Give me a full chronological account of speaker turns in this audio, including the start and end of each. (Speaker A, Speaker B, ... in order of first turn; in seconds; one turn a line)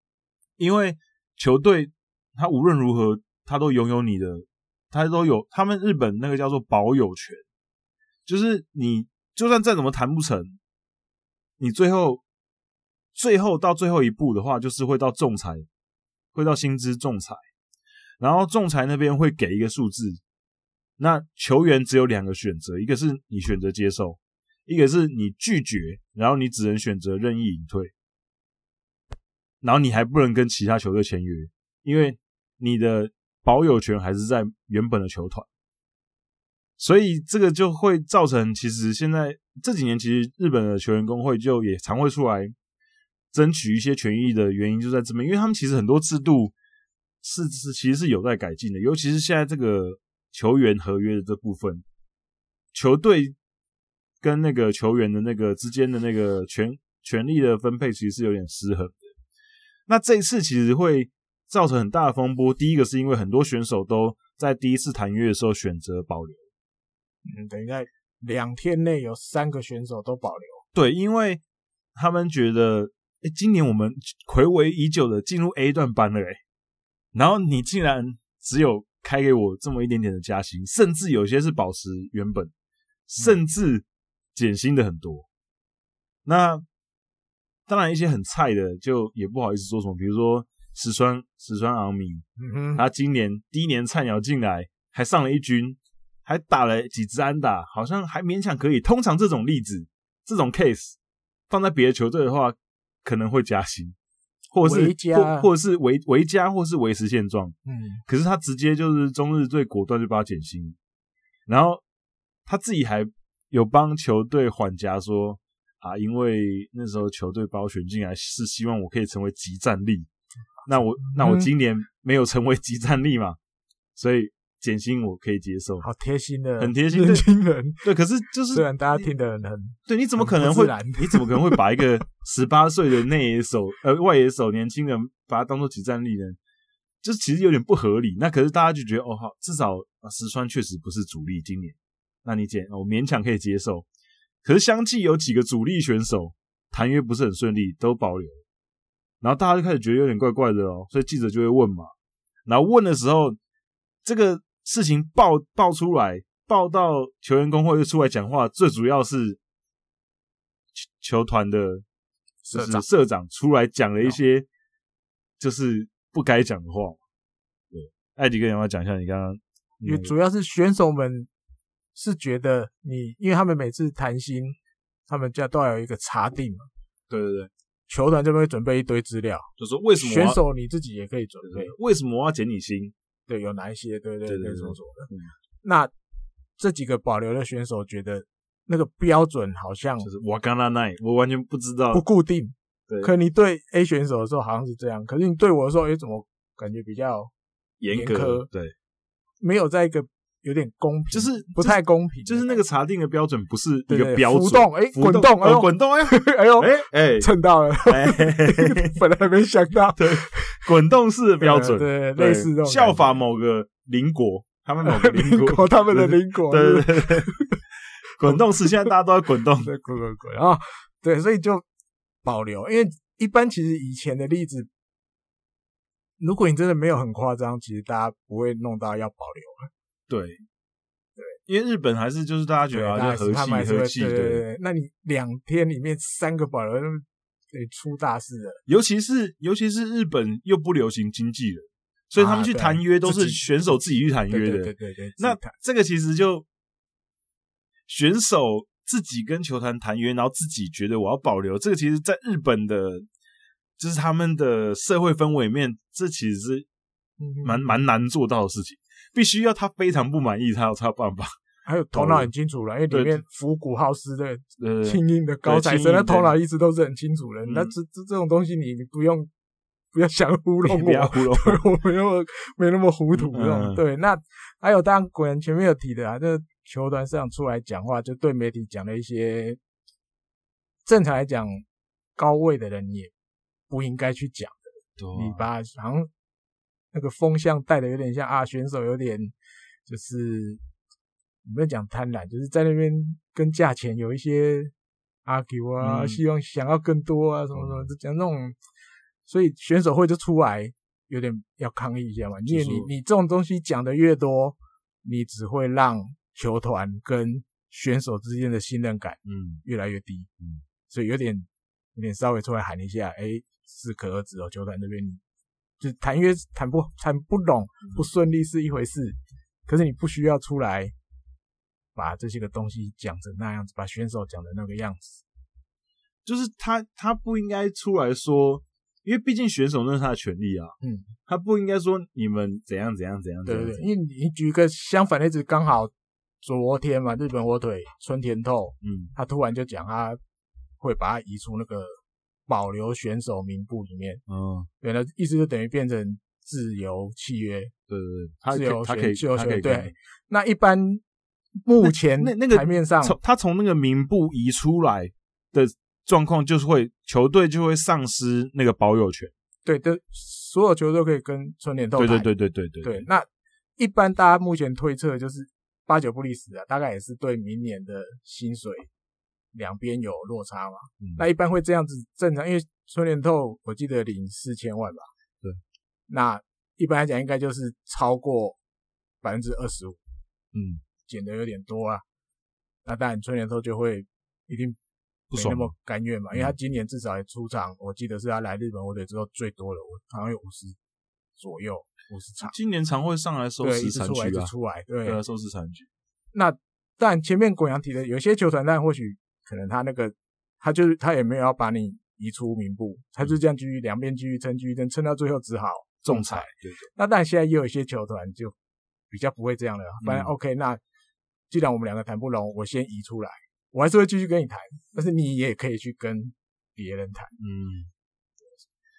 Speaker A: 0.6-7.4
Speaker A: 8.3-10.6
Speaker A: 11.6-12.2
Speaker A: 13.1-15.7
Speaker A: 16.3-17.4
Speaker A: 18.2-20.2
Speaker A: 21.0-27.9
Speaker A: 29.6-35.5
Speaker A: 36.8-42.5
Speaker A: 43.3-46.5
Speaker A: 47.2-51.8
Speaker A: 52.7-53.4
Speaker A: 54.2-59.1
Speaker A: 59.9-66.5
Speaker B: 67.2-70.6
Speaker A: 70.7-71.4
Speaker A: 71.9-76.4
Speaker A: 77.1-82.5
Speaker A: 83.1-85.2
Speaker A: 86.2-86.6
Speaker A: 87.7-92.2
Speaker B: 92.4-92.8
Speaker A: 92.8-101.0
Speaker A: 101.5-104.0
Speaker A: 104.5-107.5
Speaker B: 104.6-105.5
Speaker B: 107.7-108.0
Speaker A: 108.1-110.8
Speaker A: 111.5-111.8
Speaker A: 112.5-120.1
Speaker A: 120.7-123.4
Speaker B: 121.0-121.5
Speaker A: 124.0-125.8
Speaker B: 125.8-127.9
Speaker A: 126.6-127.3
Speaker A: 127.8-129.1
Speaker B: 128.5-131.8
Speaker A: 129.9-136.4
Speaker A: 137.0-143.8
Speaker A: 144.4-148.4
Speaker A: 149.2-151.9
Speaker A: 152.4-153.4
Speaker A: 154.0-159.4
Speaker A: 160.8-161.8
Speaker B: 162.4-162.8
Speaker A: 162.5-164.5
Speaker A: 165.4-167.0
Speaker A: 167.7-170.1
Speaker B: 169.8-171.3
Speaker B: 171.9-174.6
Speaker B: 175.1-176.7
Speaker A: 177.1-177.5
Speaker B: 177.9-179.5
Speaker A: 179.6-180.4
Speaker B: 180.0-181.7
Speaker A: 181.4-182.9
Speaker B: 183.3-185.1
Speaker A: 184.2-185.3
Speaker B: 185.6-185.9
Speaker B: 186.6-190.1
Speaker A: 190.0-192.0
Speaker B: 191.9-197.3
Speaker A: 197.8-198.7
Speaker B: 197.9-198.5
Speaker B: 199.4-202.6
Speaker A: 201.1-207.3
Speaker B: 203.9-210.7
Speaker A: 207.8-208.9
Speaker A: 210.0-217.3
Speaker B: 211.4-213.0
Speaker B: 214.8-217.6
Speaker A: 218.2-219.7
Speaker B: 218.2-218.9
Speaker B: 219.6-221.7
Speaker B: 222.2-224.7
Speaker B: 226.2-229.7
Speaker A: 230.1-230.4
Speaker A: 231.5-234.4
Speaker B: 232.7-238.6
Speaker A: 238.7-246.4
Speaker B: 242.2-245.5
Speaker A: 247.9-253.1
Speaker A: 253.8-256.6
Speaker B: 257.2-257.8
Speaker A: 257.4-261.3
Speaker B: 261.6-269.3
Speaker A: 261.9-262.3
Speaker A: 262.9-263.2
Speaker A: 264.6-266.3
Speaker A: 267.4-267.7
Speaker B: 269.9-279.6
Speaker A: 270.6-271.6
Speaker A: 273.1-273.8
Speaker B: 280.8-281.6
Speaker B: 282.2-283.1
Speaker B: 283.7-286.1
Speaker A: 285.0-285.4
Speaker B: 286.9-289.3
Speaker B: 289.9-290.6
Speaker B: 291.4-294.7
Speaker B: 295.2-298.6
Speaker A: 295.8-296.2
Speaker A: 297.6-297.9
Speaker B: 299.2-310.3
Speaker A: 302.5-302.9
Speaker A: 309.2-309.6
Speaker B: 310.9-315.2
Speaker B: 315.8-320.9
Speaker B: 321.9-325.2
Speaker A: 326.2-333.9
Speaker B: 330.8-331.1
Speaker B: 333.4-335.9
Speaker B: 336.4-340.2
Speaker A: 338.8-339.1
Speaker B: 340.8-344.2
Speaker A: 344.3-344.7
Speaker B: 344.8-347.7
Speaker A: 347.9-349.9
Speaker B: 348.5-351.0
Speaker B: 351.6-353.1
Speaker A: 351.8-359.3
Speaker B: 359.6-362.3
Speaker A: 361.9-363.1
Speaker B: 362.8-363.3
Speaker B: 363.8-368.9
Speaker B: 369.5-375.1
Speaker B: 376.1-378.6
Speaker B: 379.2-380.0
Speaker A: 380.5-380.8
Speaker B: 381.1-382.0
Speaker B: 382.8-384.8
Speaker A: 385.3-385.7
Speaker B: 385.3-390.8
Speaker B: 391.4-392.5
Speaker A: 392.4-394.5
Speaker B: 393.6-395.2
Speaker A: 395.0-395.9
Speaker B: 396.3-408.5
Speaker A: 406.0-406.9
Speaker B: 409.1-410.8
Speaker A: 410.0-410.3
Speaker B: 411.5-417.3
Speaker A: 417.4-417.9